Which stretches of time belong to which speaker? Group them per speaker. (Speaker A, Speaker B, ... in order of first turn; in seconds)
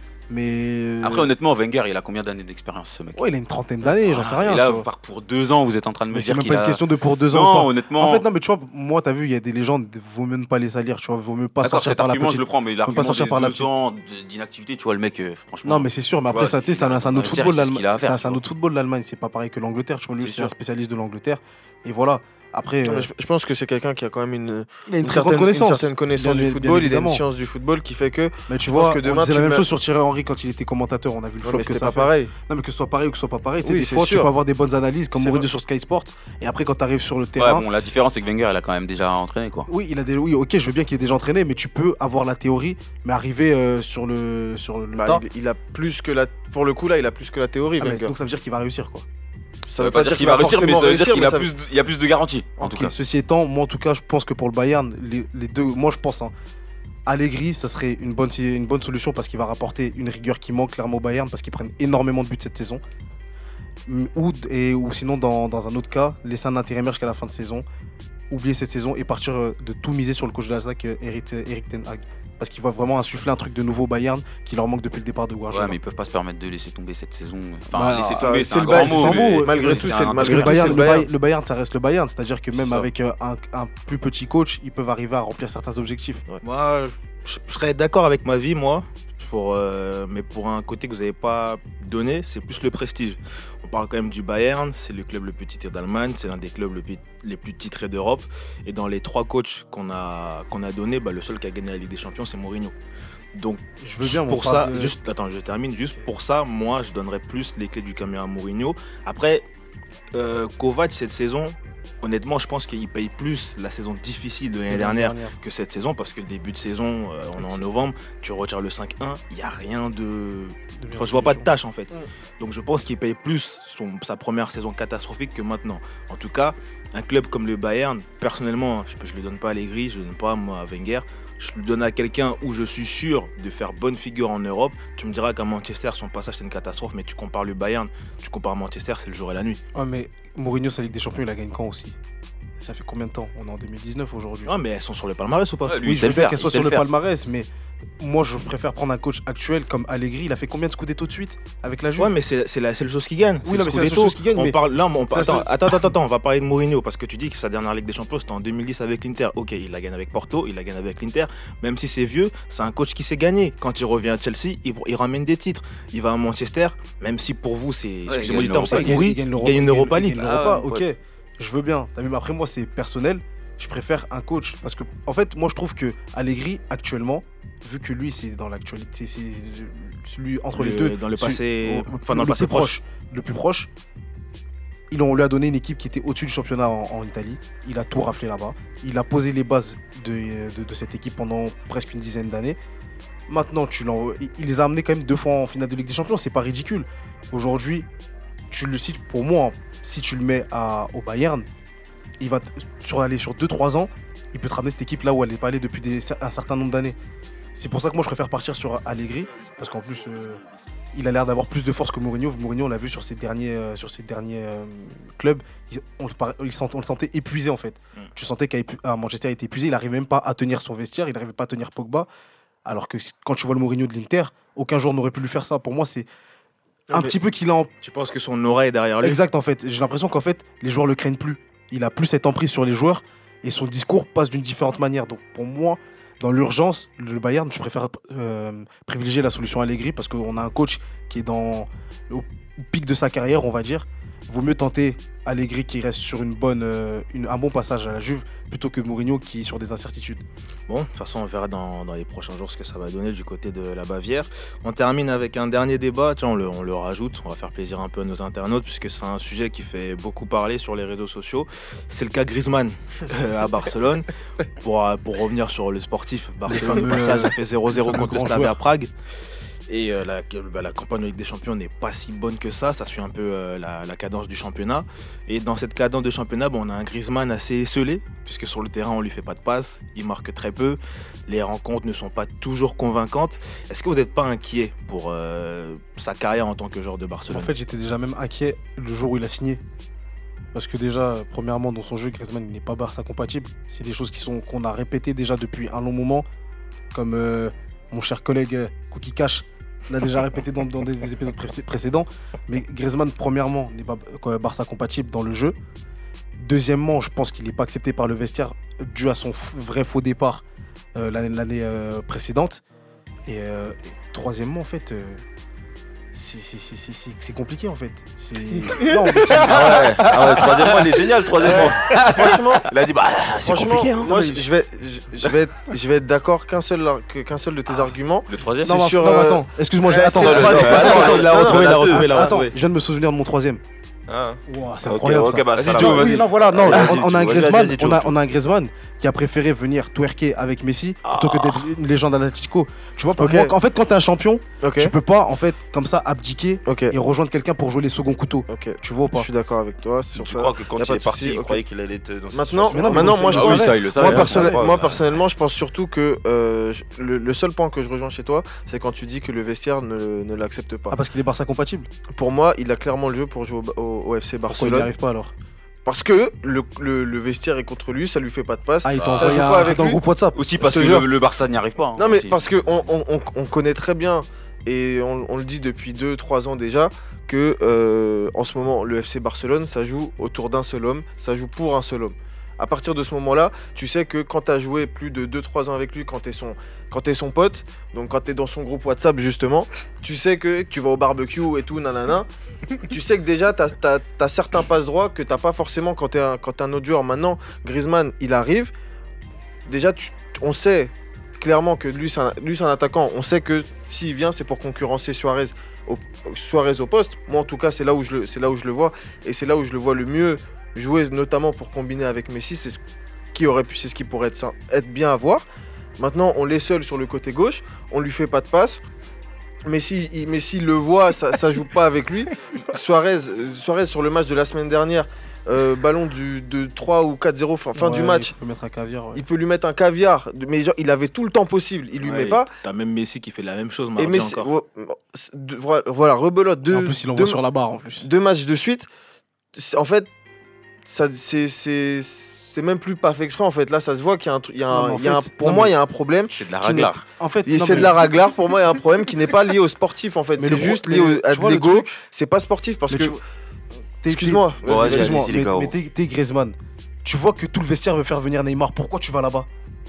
Speaker A: 0.3-1.3, 3.1-4.8, 6.1-13.7, 15.6-23.1, 24.9-27.2, 28.5-37.7, 39.7-45.2, 47.8-49.0, 52.6-56.3, 57.0-62.8, 63.9-67.6, 68.3-75.8, 77.7-86.2, 103.8-105.0, 114.7-115.3, 120.7-121.5, 139.7-142.0, 142.6-144.5, 145.8-147.5, 148.0-152.1, 153.4-154.6, 155.1-155.9, 168.6-183.7, 184.9-192.6, 193.3-197.9, 198.5-201.5, 202.2-206.9, 207.6-210.4, 210.9-222.1, 222.6-226.1, 226.9-227.7, 229.0-250.2, 266.5-268.6, 287.3-289.6, 290.5-296.2, 296.9-305.6, 306.4-310.4, 310.9-312.6, 313.3-315.2, 316.1-319.9, 328.6-333.6, 334.5-349.3, 352.7-354.6, 360.9-361.9, 364.5-365.3, 368.8-370.4, 427.7-429.2, 436.7-438.1, 444.7-445.7, 447.2-447.9, 450.4-451.9, 452.9-453.2, 454.0-459.5
Speaker B: 1.0-3.2, 4.0-6.8, 7.3-8.2, 11.6-18.4, 37.4-39.7, 49.8-52.9, 75.5-80.9, 145.7-146.8, 168.1-169.0, 170.2-170.8, 321.9-322.3, 328.3-328.8, 330.2-331.1, 335.5-336.8, 353.2-354.4, 369.0-369.8, 370.4-372.4, 446.3-447.0
Speaker C: 20.2-20.5, 86.4-102.7, 103.3-109.4, 110.1-139.6, 144.4-146.2, 152.0-170.3, 180.5-182.7, 227.8-229.2, 250.7-264.1, 264.6-268.9, 269.7-287.5, 330.5-332.6, 432.0-434.5
Speaker D: 22.9-29.6, 31.4-32.3, 33.6-34.3, 35.1-35.5, 45.0-48.1, 49.7-51.5, 78.2-81.1, 321.4-322.6, 323.4-332.3, 343.2-343.5, 344.6-344.9, 346.6-346.9, 348.5-351.6, 352.3-360.9, 362.1-364.9, 365.8-370.0, 370.6-371.1, 372.0-392.3, 392.8-398.7, 399.6-412.8, 413.3-415.4, 416.0-418.8, 419.6-428.3, 429.1-432.5, 434.0-437.4, 438.0-438.9, 439.5-440.1, 440.9-453.2, 454.1-455.2
Speaker E: 319.4-324.4, 330.2-332.0, 334.1-338.1, 341.1-341.6, 350.1-355.0, 454.6-455.7